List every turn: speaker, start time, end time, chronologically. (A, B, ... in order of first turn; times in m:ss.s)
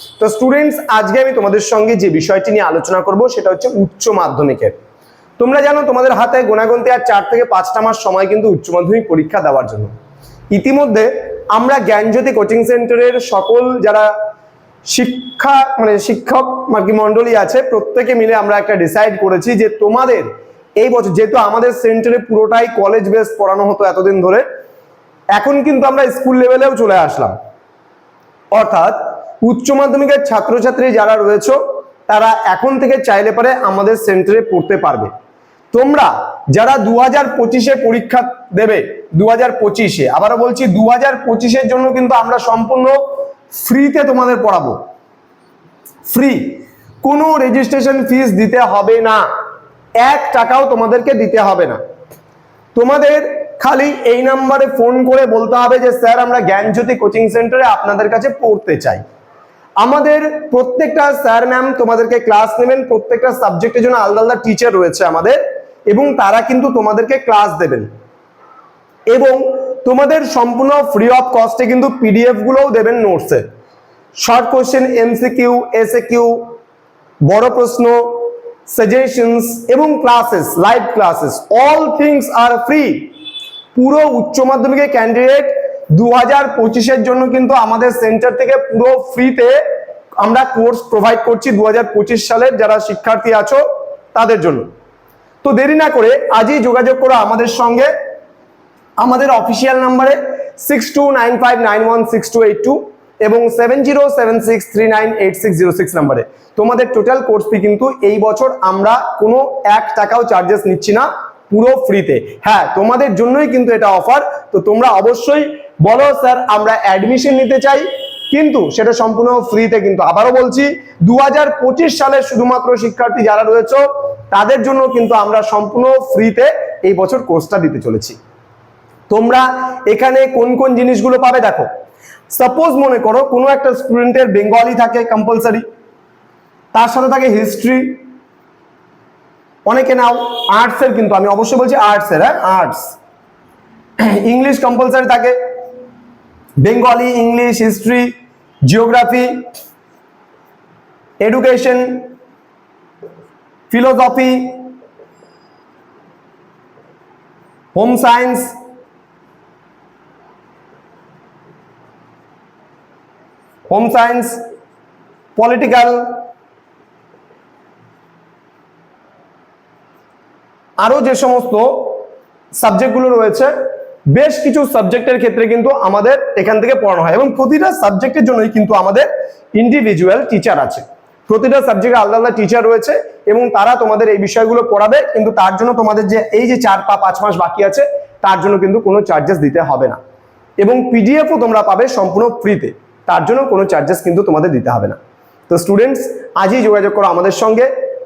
0:00.2-0:04.7 A
0:05.4-0:09.9 A
0:10.5-0:14.1 A
0:14.9-0:20.3 A
0:20.8-0:24.4 A
0:25.3-0:27.4 A
0:28.5-0:35.1 A
0:35.7-0:43.0 A
0:43.5-0:44.8 A
0:46.1-0:49.2 A
0:50.0-0:51.8 A
0:52.7-0:59.0 A
0:59.8-1:07.9 A
1:09.1-1:13.4 A
1:14.2-1:16.6 A
1:17.2-1:23.1 A
1:23.7-1:29.6 A
1:30.2-1:34.7 A
1:35.4-1:37.9 A
1:39.0-2:08.2 A
2:09.1-2:11.7 A
2:12.3-2:15.6 A
2:16.7-2:18.0 A
2:19.6-2:23.0 A
2:24.0-2:25.3 A
2:26.6-2:28.1 A
2:28.6-2:29.4 A
2:31.2-2:32.1 A
2:33.7-2:34.7 A
2:37.7-2:38.5 A
2:43.7-2:44.4 A
2:45.4-2:46.2 A
2:50.8-2:52.0 A
2:52.6-2:53.5 A
2:54.1-3:10.0 A
3:10.6-3:15.0 A
3:15.5-3:17.7 A